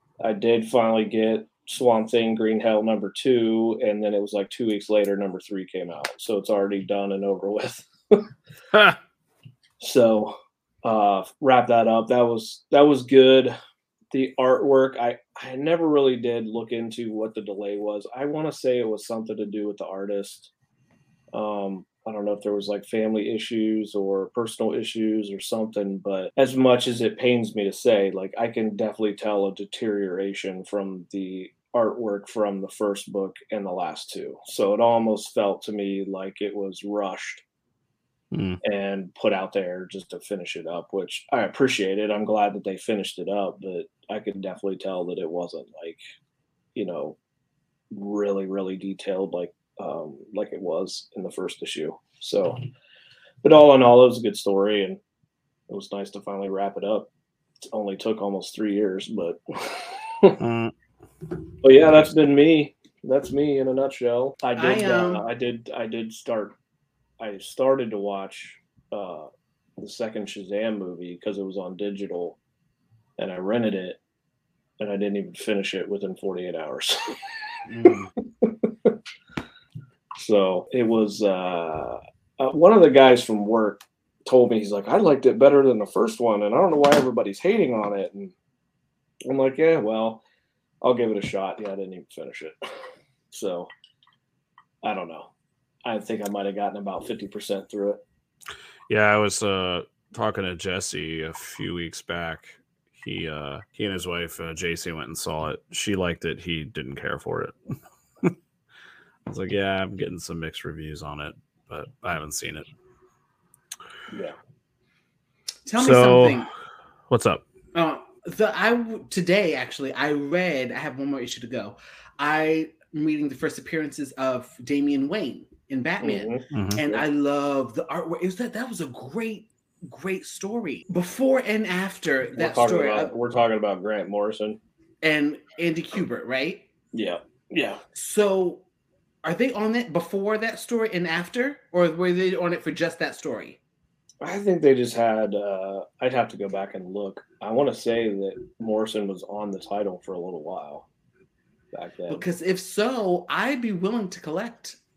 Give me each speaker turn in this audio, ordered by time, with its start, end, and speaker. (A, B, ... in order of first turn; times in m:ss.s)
0:00.2-0:08.3 A
0:09.8-0:13.6 A
0:14.1-0:20.5 A
0:21.3-0:37.4 A
0:38.3-0:38.6 B
0:38.6-0:46.0 A
0:46.8-0:47.2 A
0:47.9-0:52.6 A
0:53.4-0:55.0 A
0:55.7-0:57.1 A
0:57.7-1:00.4 A
1:00.4-1:00.7 B
1:01.6-1:06.5 A
1:04.6-1:05.2 C
1:07.2-1:12.4 A
1:13.2-1:14.0 A
1:14.8-1:17.3 A
1:17.7-1:18.1 C
1:18.4-1:18.9 A
1:20.2-1:28.3 A
1:29.2-1:30.2 A
1:30.8-1:32.6 A
1:33.3-1:33.7 A
1:34.8-1:35.3 A
1:35.8-1:38.0 A
1:38.9-1:47.6 B
1:49.2-1:52.7 B
1:55.6-1:56.5 C
1:55.8-1:56.4 B
1:57.1-1:57.4 B
1:57.7-2:13.1 C
2:06.0-2:07.0 A
2:06.5-2:06.8 B
2:12.4-2:14.6 A
2:15.0-2:16.6 C
2:16.9-2:17.8 A
2:17.9-2:18.6 C
2:19.2-2:23.6 C
2:24.2-2:30.8 A
2:31.7-2:32.2 A
2:32.1-2:34.8 C